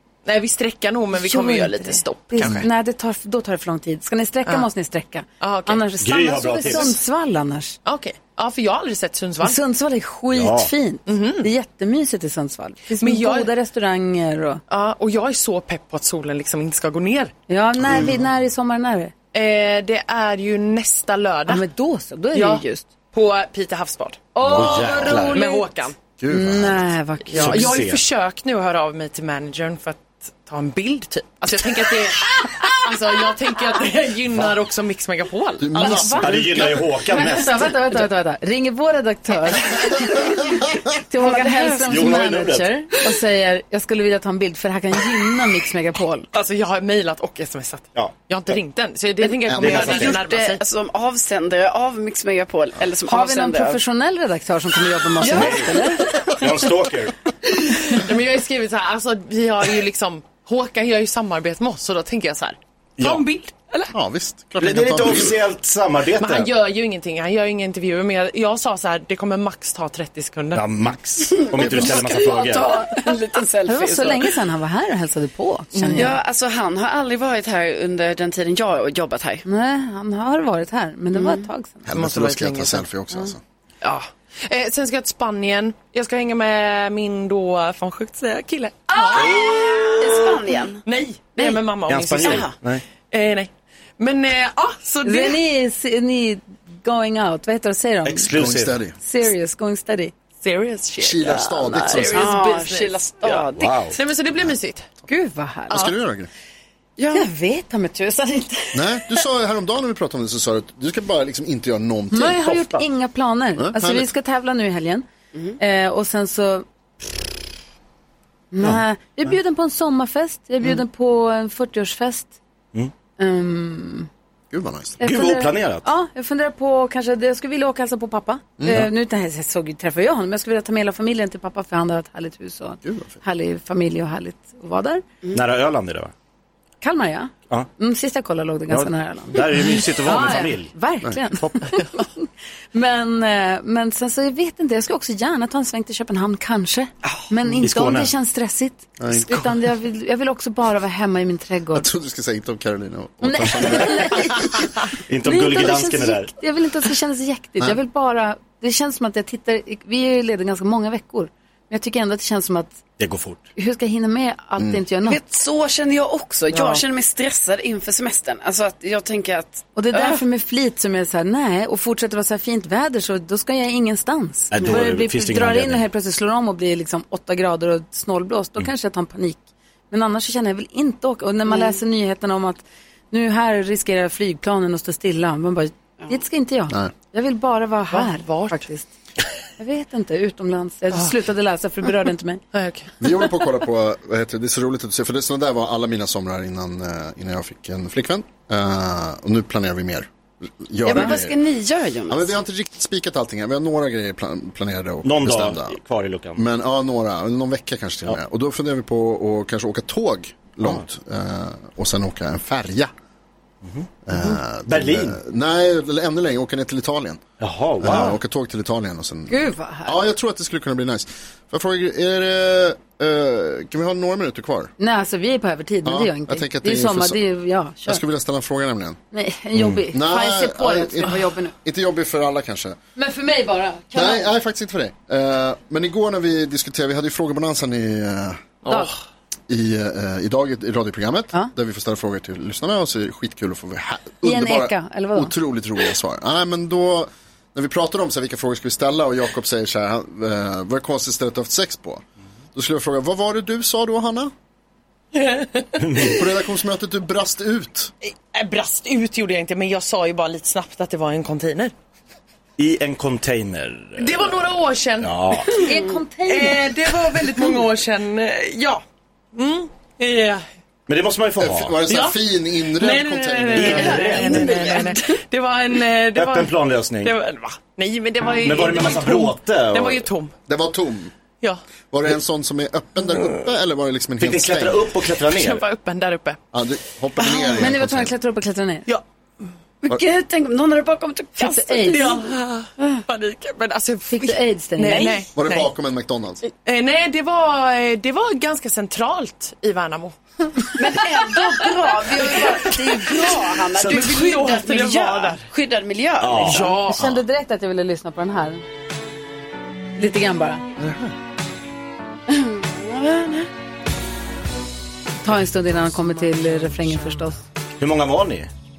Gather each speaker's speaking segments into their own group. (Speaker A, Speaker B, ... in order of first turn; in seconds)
Speaker A: 0.2-2.6, 5.4-5.8, 6.6-7.0, 7.8-9.6, 11.1-11.5, 13.0-13.5, 14.7-17.3, 19.3-21.6, 22.3-25.9, 27.3-36.0, 46.3-50.6, 57.8-63.9, 66.2-70.7, 75.7-76.1, 81.9-82.8, 83.8-92.6, 93.1-95.4, 100.4-104.9, 187.9-188.6, 192.5-192.9, 238.6-238.9, 255.1-255.8, 258.3-261.7, 264.0-265.6, 266.2-268.8, 269.3-270.4, 271.9-280.3, 285.2-286.4, 291.9-295.7, 296.6-305.4, 306.4-307.2
Speaker B: 1.1-7.8, 9.4-14.6, 17.5-19.1, 21.5-22.8, 24.3-25.7, 26.3-27.7, 35.7-46.3, 53.0-56.3, 73.6-76.2, 79.5-81.9, 95.0-98.3, 99.0-100.1, 105.1-105.9, 107.1-109.0, 112.1-115.0, 115.6-116.6, 118.5-122.3, 123.2-124.1, 125.0-135.0, 136.8-151.9, 153.2-154.5, 155.2-162.8, 163.6-165.2, 166.5-166.8, 169.7-188.9, 189.6-192.4, 219.3-220.0, 224.8-228.0, 229.1-231.5, 232.9-234.3, 244.2-245.3, 265.6-266.7, 287.5-288.9, 291.4-292.2, 294.1-295.2, 306.8-308.6, 310.0-310.6, 315.2-317.4
Speaker C: 6.0-6.9, 10.3-10.7, 24.4-25.4, 27.4-28.0, 36.1-37.8, 41.9-42.7, 49.5-50.2, 55.2-57.1, 64.6-66.5, 70.5-72.7, 91.9-92.8, 98.0-98.8, 103.5-104.0, 112.4-112.8, 125.0-125.9, 135.3-136.1, 138.7-140.7, 141.4-141.8, 147.6-148.1, 155.1-156.3, 163.0-163.4, 174.5-175.8, 205.0-206.4, 213.6-215.2, 217.4-218.2, 255.8-256.2, 262.6-264.3, 265.0-265.6, 270.9-271.8, 273.5-274.6, 276.1-277.1, 278.4-280.1, 284.2-285.6, 303.8-304.1, 306.2-306.8, 317.8-318.5
Speaker D: 17.8-18.2, 26.2-26.9, 35.6-36.8, 63.9-65.4, 81.8-83.4, 98.3-99.0, 101.0-102.3, 105.7-106.3, 108.7-112.5, 113.6-114.1, 124.5-125.0, 128.6-128.8, 132.8-133.2, 149.0-149.4, 151.7-154.5, 193.0-201.4, 202.1-205.8, 206.3-212.9, 214.1-217.2, 217.8-224.7, 225.8-227.2, 227.8-229.0, 229.6-232.8, 233.9-238.5, 239.5-254.3, 256.0-257.9, 271.4-274.0, 280.5-281.1, 281.9-284.9, 286.5-288.1, 295.4-296.4, 310.8-311.1
Speaker E: 41.2-42.1, 49.2-53.8, 55.3-55.6, 71.3-74.3, 75.9-79.4, 81.1-81.4, 89.2-90.8, 91.4-91.6, 92.2-92.5, 101.9-103.8, 107.0-107.3, 165.0-170.2, 200.8-202.4, 273.8-275.1, 289.8-292.3, 300.8-306.7, 312.3-313.5